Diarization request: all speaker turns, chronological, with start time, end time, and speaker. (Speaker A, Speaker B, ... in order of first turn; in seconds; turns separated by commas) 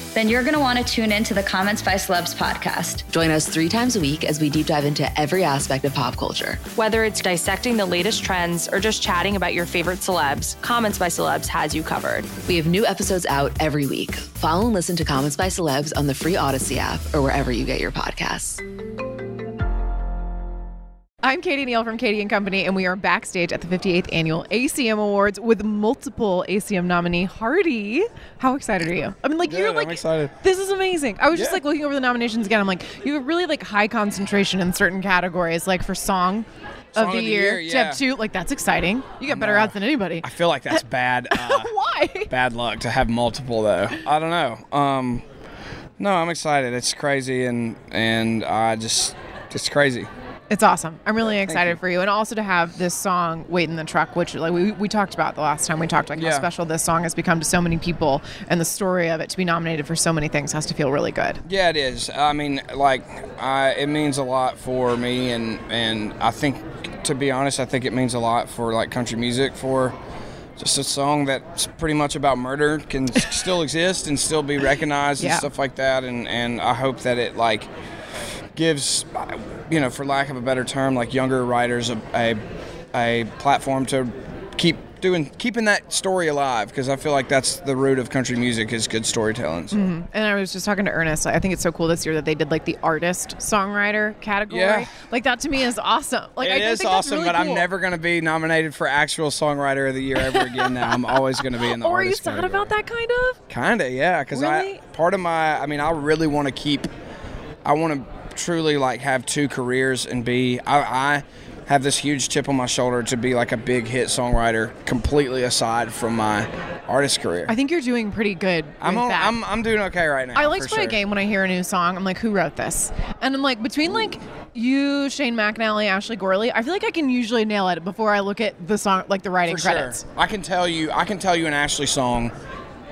Speaker A: 0.1-3.0, Speaker B: 3.1-6.6, Speaker C: 6.7-12.3, Speaker B: 12.4-18.6, Speaker D: 21.2-42.3, Speaker E: 29.4-30.4, Speaker E: 31.3-31.6, Speaker E: 36.9-38.0, Speaker E: 39.2-41.7, Speaker E: 42.3-45.2, Speaker E: 46.0-50.1, Speaker D: 50.5-61.4, Speaker E: 51.3-51.8, Speaker E: 56.1-56.5, Speaker E: 61.4-70.0, Speaker E: 70.6-77.7, Speaker D: 75.2-75.5, Speaker E: 78.5-82.4, Speaker E: 82.9-89.8, Speaker D: 89.7-97.7, Speaker E: 94.5-94.9, Speaker E: 96.4-102.7, Speaker D: 100.2-103.4, Speaker E: 103.5-106.9, Speaker D: 104.3-104.8, Speaker E: 107.6-117.5, Speaker D: 117.5-119.4, Speaker E: 118.8-121.0, Speaker D: 120.3-130.0, Speaker E: 129.4-132.3